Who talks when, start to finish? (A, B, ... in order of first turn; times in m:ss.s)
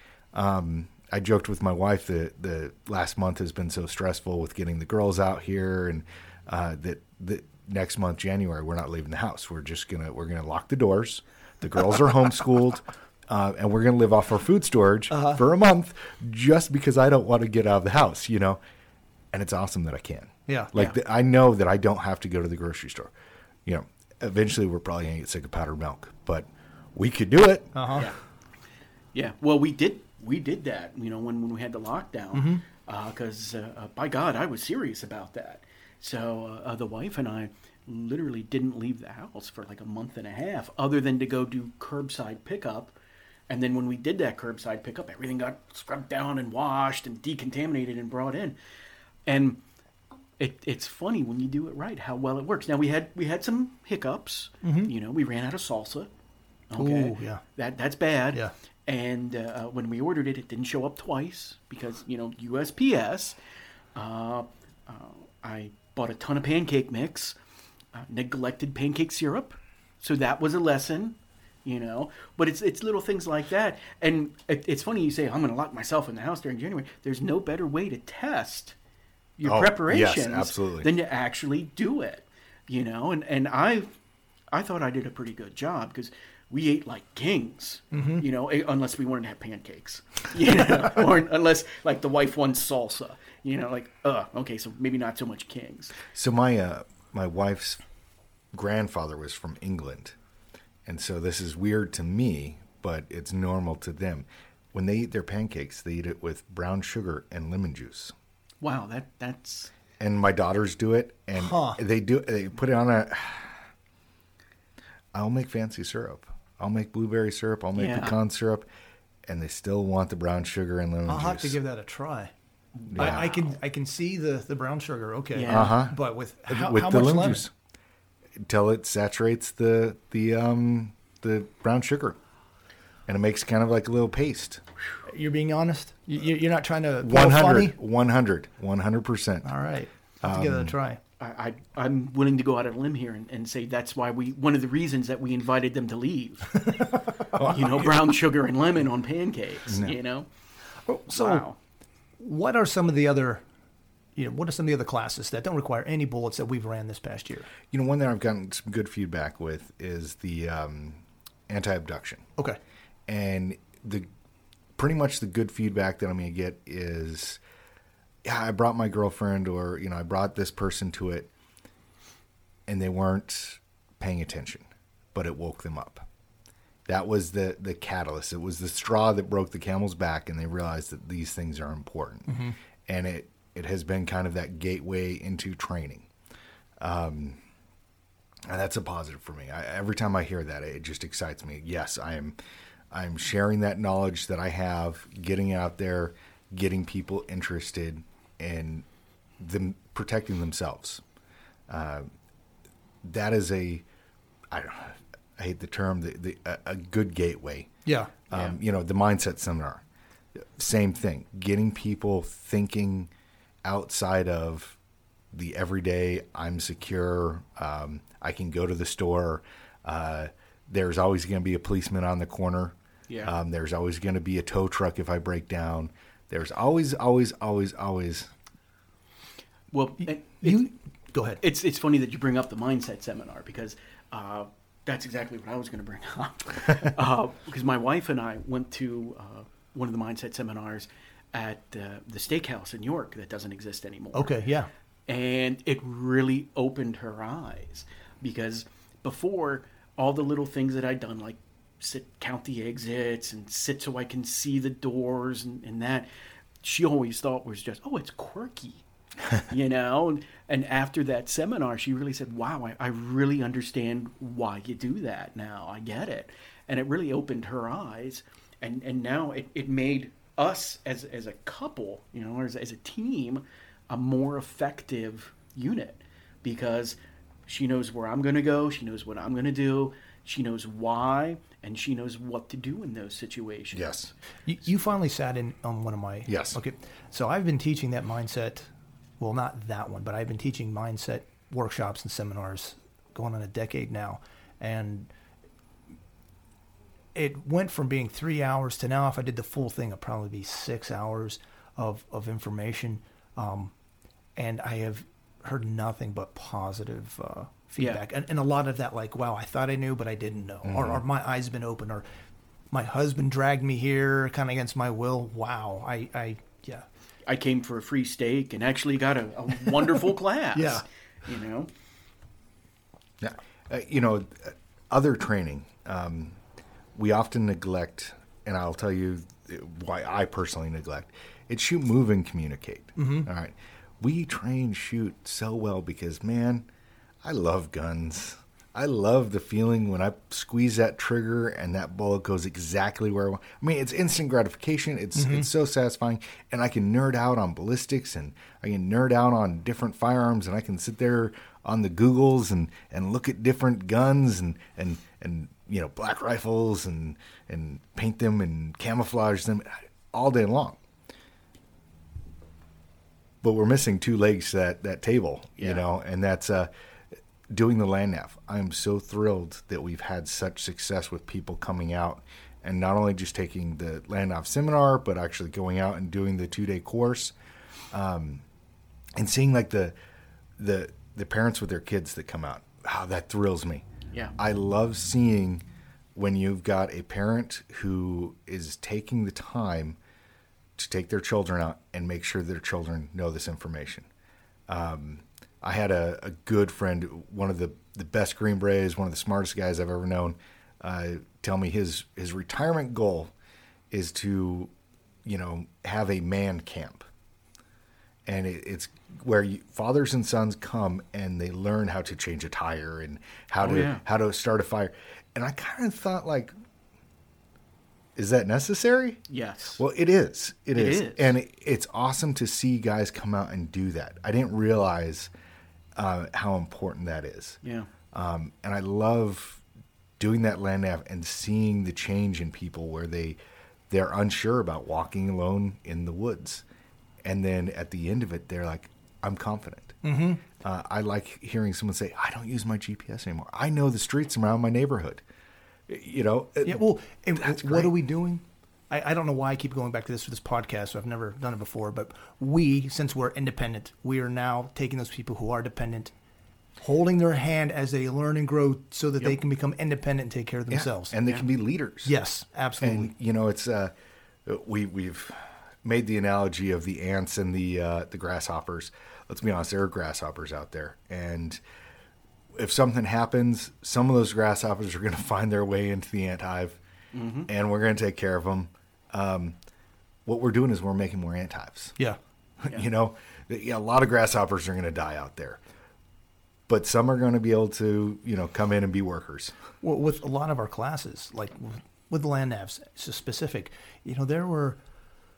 0:00.3-0:18.6 A
0:15.1-0:15.4 B
0:19.3-0:23.1 A
0:23.7-0:28.0 A
0:27.8-0:28.1 B
0:29.1-0:42.9 C
0:32.3-0:32.6 B
0:43.5-0:48.6 C
0:49.3-0:49.6 C
0:50.4-0:56.1 C
0:54.6-0:54.9 B
0:56.7-1:03.4 C
0:56.8-0:57.4 B
1:04.0-1:07.4 C
1:07.9-1:18.8 C
1:19.4-1:23.9 C
1:19.4-1:20.9 A
1:24.5-1:36.0 C
1:27.9-1:28.2 B
1:36.1-1:37.8 A
1:38.5-1:40.2 A
1:40.9-1:48.1 A
1:48.6-1:49.7 C
1:50.0-1:53.6 A
1:51.4-1:51.8 B
1:55.1-1:58.7 A
1:57.8-1:58.2 C
1:59.3-2:01.6 A
2:01.1-2:02.3 B
2:02.8-2:03.3 C
2:02.9-2:03.3 A
2:03.0-2:07.4 B
2:05.4-2:05.8 C
2:05.5-2:06.0 A
2:06.5-2:07.5 A
2:08.4-2:12.2 A
2:13.1-2:14.6 A
2:15.1-2:17.8 B
2:17.0-2:19.5 A
2:19.4-2:21.0 B
2:20.2-2:20.7 A
2:21.2-2:26.7 C
2:26.5-2:27.2 B
2:27.4-2:28.1 A
2:27.4-2:30.3 C
2:29.7-2:30.0 A
2:30.9-2:31.5 B
2:31.1-2:31.6 C
2:32.2-2:33.4 B
2:34.2-2:37.5 B
2:37.7-2:42.3 A
2:43.1-2:44.1 A
2:44.8-2:47.4 A
2:48.2-2:51.3 A
2:52.7-2:56.1 A
2:56.9-3:06.1 A
3:02.3-3:02.6 B
3:06.8-3:07.4 A
3:08.5-3:12.4 A
3:12.9-3:18.9 A
3:19.4-3:21.0 A
3:21.7-3:22.1 A
3:23.0-3:23.8 A
3:24.5-3:27.7 A
3:27.8-3:28.1 B
3:28.3-3:29.8 A
3:30.4-3:33.1 A
3:33.6-3:34.8 A
3:35.3-3:48.3 A
3:49.7-3:50.7 C
3:50.4-3:51.4 B
3:51.4-4:04.3 C
4:04.1-4:04.7 B
4:05.1-4:16.1 C
4:16.6-4:43.9 C
4:43.7-4:44.1 A
4:44.5-4:55.1 B
4:46.3-4:46.6 A
4:57.2-5:03.7 B
5:04.4-5:12.0 B
5:10.6-5:11.0 A
5:12.7-5:16.9 B
5:17.3-5:21.7 C
5:20.5-5:20.8 B
5:23.2-5:26.4 A
5:27.0-5:36.7 A
5:33.0-5:33.3 B
5:37.2-6:00.8 A
5:45.2-5:45.5 B
6:03.4-6:06.7 A
6:07.5-6:17.3 A
6:17.9-6:18.4 A
6:19.2-6:19.9 A
6:20.6-6:23.9 A
6:24.4-6:25.6 A
6:26.2-6:30.0 A
6:30.8-6:34.1 A
6:34.7-6:43.3 A
6:43.9-6:44.7 A
6:45.2-6:47.1 A
6:48.3-6:56.5 A
6:53.6-6:54.0 C
6:58.2-6:59.2 A
6:59.3-6:59.8 C
6:59.8-7:05.3 A
7:00.8-7:01.3 C
7:06.0-7:07.6 A
7:07.6-7:07.9 C
7:08.1-7:09.6 A
7:10.2-7:13.4 A
7:13.9-7:16.6 A
7:17.2-7:20.0 A
7:20.0-7:20.4 B
7:20.6-7:25.2 A
7:25.9-7:26.8 A
7:26.6-7:36.1 B
7:27.4-7:27.9 A
7:36.8-7:41.1 B
7:40.7-7:42.1 A
7:42.0-7:43.1 B
7:42.8-7:43.9 A
7:44.5-7:51.6 A
7:52.5-7:56.8 A
7:57.1-7:57.5 C
7:57.5-7:59.6 A
8:00.3-8:02.0 A
8:02.6-8:05.6 A
8:06.7-8:09.6 A
8:09.8-8:14.8 B